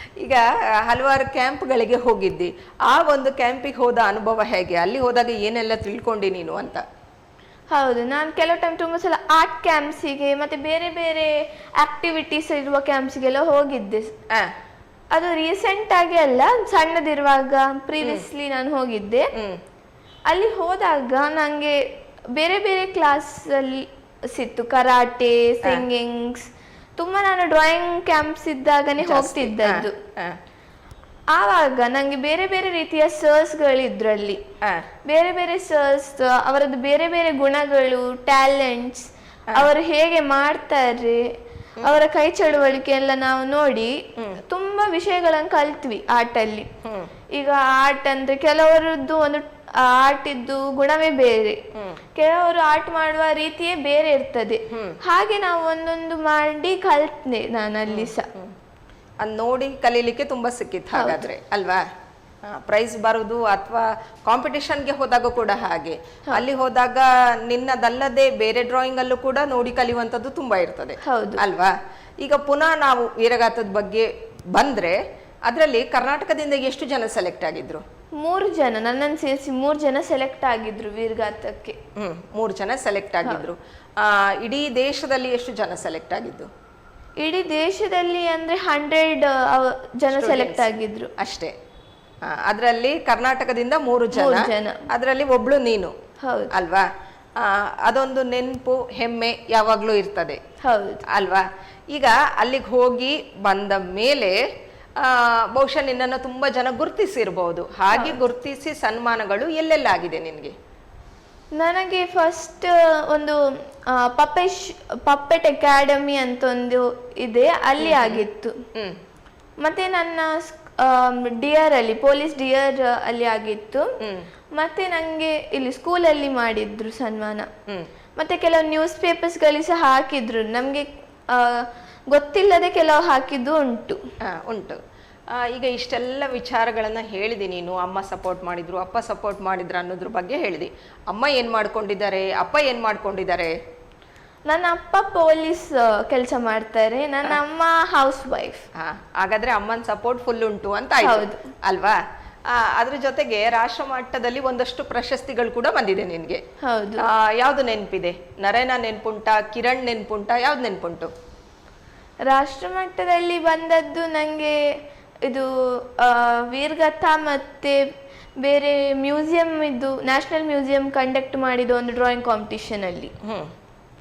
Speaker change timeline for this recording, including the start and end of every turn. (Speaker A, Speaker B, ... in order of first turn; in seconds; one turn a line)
Speaker A: 0.2-6.8
Speaker B: 7.7-14.1
Speaker B: 15.1-19.3
Speaker A: 18.0-18.3
Speaker B: 20.3-21.8
Speaker B: 22.4-30.0
Speaker A: 29.0-30.4
Speaker B: 31.4-34.4
Speaker B: 35.1-41.2
Speaker B: 41.8-43.9
Speaker B: 44.5-46.7
Speaker A: 46.8-47.1
Speaker B: 47.4-51.6
Speaker B: 52.2-58.3
Speaker A: 54.7-55.0
Speaker A: 57.9-58.5
Speaker A: 59.2-61.8
Speaker B: 60.9-61.2
Speaker A: 62.4-77.8
Speaker B: 71.0-71.4
Speaker B: 78.2-81.8
Speaker A: 82.0-86.5
Speaker B: 87.2-91.1
Speaker A: 90.1-91.5
Speaker A: 92.2-95.9
Speaker B: 94.1-94.9
Speaker B: 96.2-96.5
Speaker A: 96.5-100.4
Speaker B: 100.6-101.0
Speaker A: 101.1-104.4
Speaker A: 105.0-110.5
Speaker B: 107.9-108.2
Speaker B: 111.6-113.4
Speaker B: 113.9-118.6
Speaker A: 117.8-119.0
Speaker B: 119.6-123.9
Speaker B: 124.5-127.5
Speaker B: 128.2-134.0
Speaker A: 134.3-134.8
Speaker A: 135.3-143.5
Speaker B: 144.5-148.6
Speaker A: 148.8-156.4
Speaker B: 151.0-151.4
Speaker B: 156.6-157.0
Speaker A: 157.0-161.1
Speaker B: 162.3-164.6
Speaker B: 165.3-167.8
Speaker B: 168.4-173.1
Speaker A: 173.2-173.5